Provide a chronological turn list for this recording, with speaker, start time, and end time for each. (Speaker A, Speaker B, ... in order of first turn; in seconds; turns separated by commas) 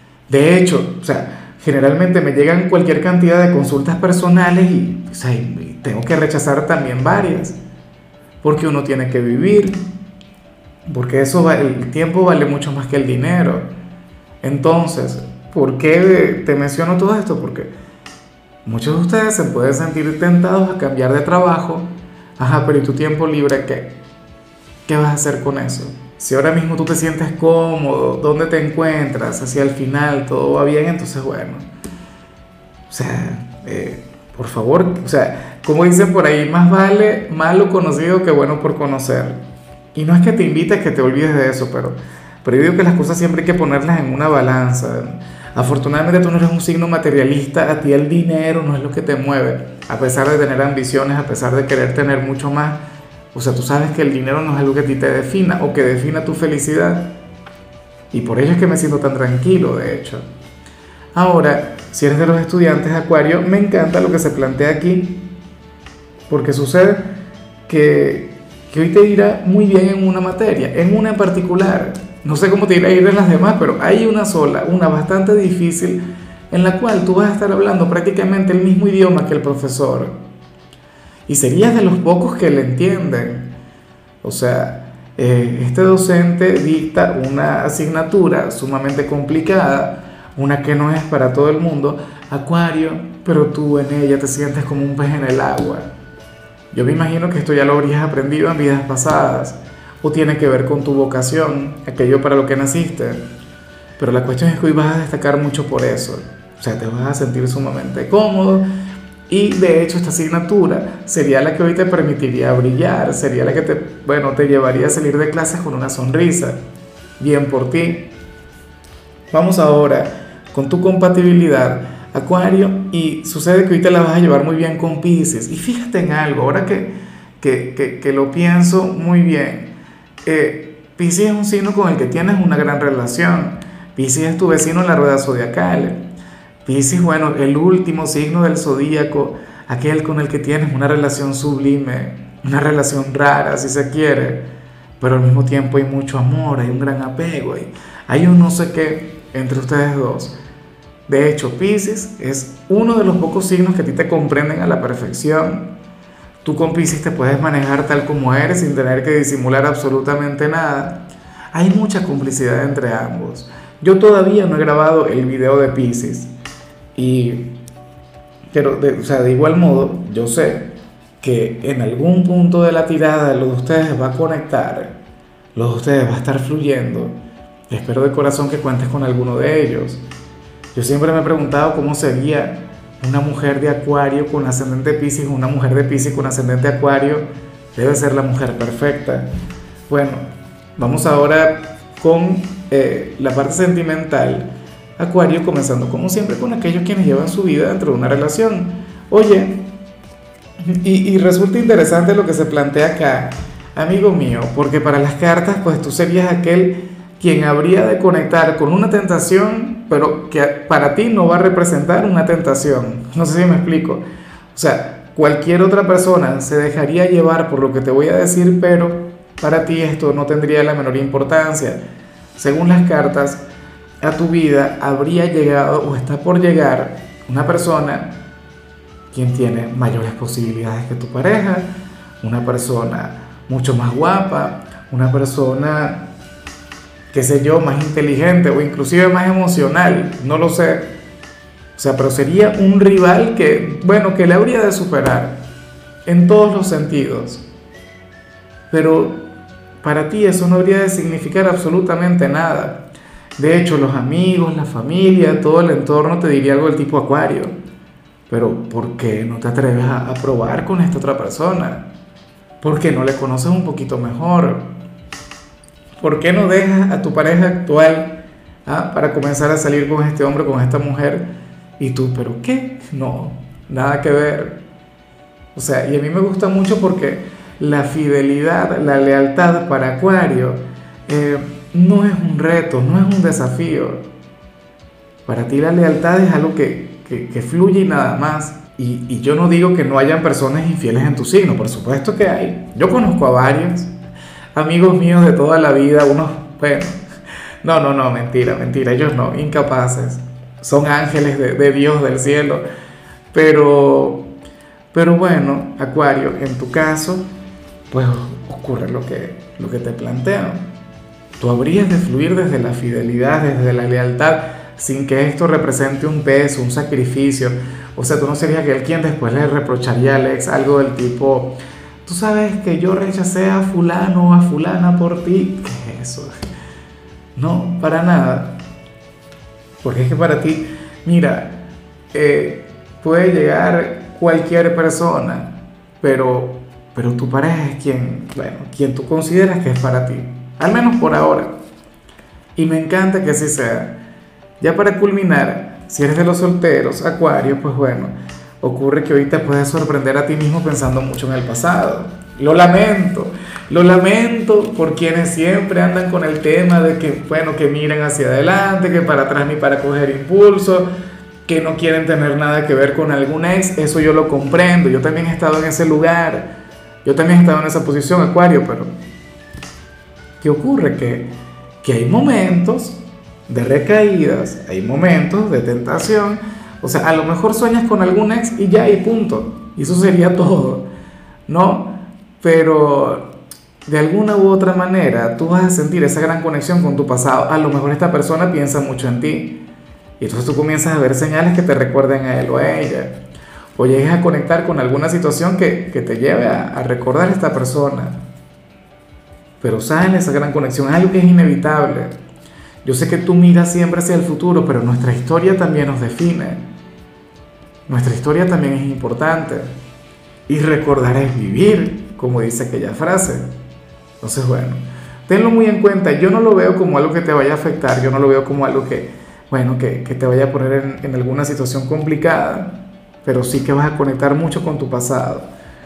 Speaker A: 0.3-7.5, Speaker A: 8.4-9.8, Speaker A: 10.9-13.7, Speaker A: 14.4-17.7, Speaker A: 18.6-23.9, Speaker A: 24.9-31.6, Speaker A: 32.9-39.4, Speaker A: 39.9-52.8, Speaker A: 53.3-57.1, Speaker A: 58.1-60.2, Speaker A: 61.1-65.2, Speaker A: 66.3-67.1, Speaker A: 67.7-76.0, Speaker A: 76.5-80.1, Speaker A: 81.3-83.5, Speaker A: 84.2-95.9, Speaker A: 96.7-103.2, Speaker A: 104.0-108.7, Speaker A: 109.3-116.6, Speaker A: 117.2-118.1, Speaker A: 119.3-129.7, Speaker A: 130.2-136.0, Speaker A: 136.6-144.4, Speaker A: 145.0-150.3, Speaker A: 151.1-155.7, Speaker A: 156.4-161.0, Speaker A: 161.5-166.3, Speaker A: 166.9-167.5, Speaker A: 168.5-170.7, Speaker A: 171.2-174.9, Speaker A: 175.5-177.1, Speaker A: 177.7-180.0, Speaker A: 180.7-189.3, Speaker A: 189.9-190.2, Speaker A: 190.8-194.5, Speaker A: 195.0-199.5, Speaker A: 200.6-214.0, Speaker A: 214.5-221.8, Speaker A: 222.3-223.4, Speaker A: 224.0-228.1, Speaker A: 229.1-231.7, Speaker A: 232.2-236.0, Speaker A: 237.1-240.9, Speaker A: 241.8-245.4, Speaker A: 246.1-247.4, Speaker A: 248.7-249.2, Speaker A: 249.8-252.8, Speaker A: 253.4-257.5, Speaker A: 258.3-261.8, Speaker A: 262.6-264.6, Speaker A: 266.0-268.1, Speaker A: 268.6-271.2, Speaker A: 271.8-274.6, Speaker A: 275.5-284.0, Speaker A: 285.2-293.9, Speaker A: 294.5-297.0, Speaker A: 297.6-302.6, Speaker A: 303.3-304.3, Speaker A: 304.9-307.2, Speaker A: 307.9-310.6, Speaker A: 311.4-326.3, Speaker A: 327.4-328.5, Speaker A: 329.8-331.5, Speaker A: 332.1-341.5, Speaker A: 342.6-343.9, Speaker A: 344.6-360.9, Speaker A: 361.4-366.5, Speaker A: 367.0-368.9, Speaker A: 370.4-371.3, Speaker A: 371.8-373.0, Speaker A: 373.5-380.9, Speaker A: 381.5-383.3, Speaker A: 383.9-389.6, Speaker A: 390.2-393.1, Speaker A: 393.8-398.1, Speaker A: 399.6-402.1, Speaker A: 402.8-406.6, Speaker A: 407.9-409.7, Speaker A: 410.5-413.4, Speaker A: 414.2-422.7, Speaker A: 423.2-425.5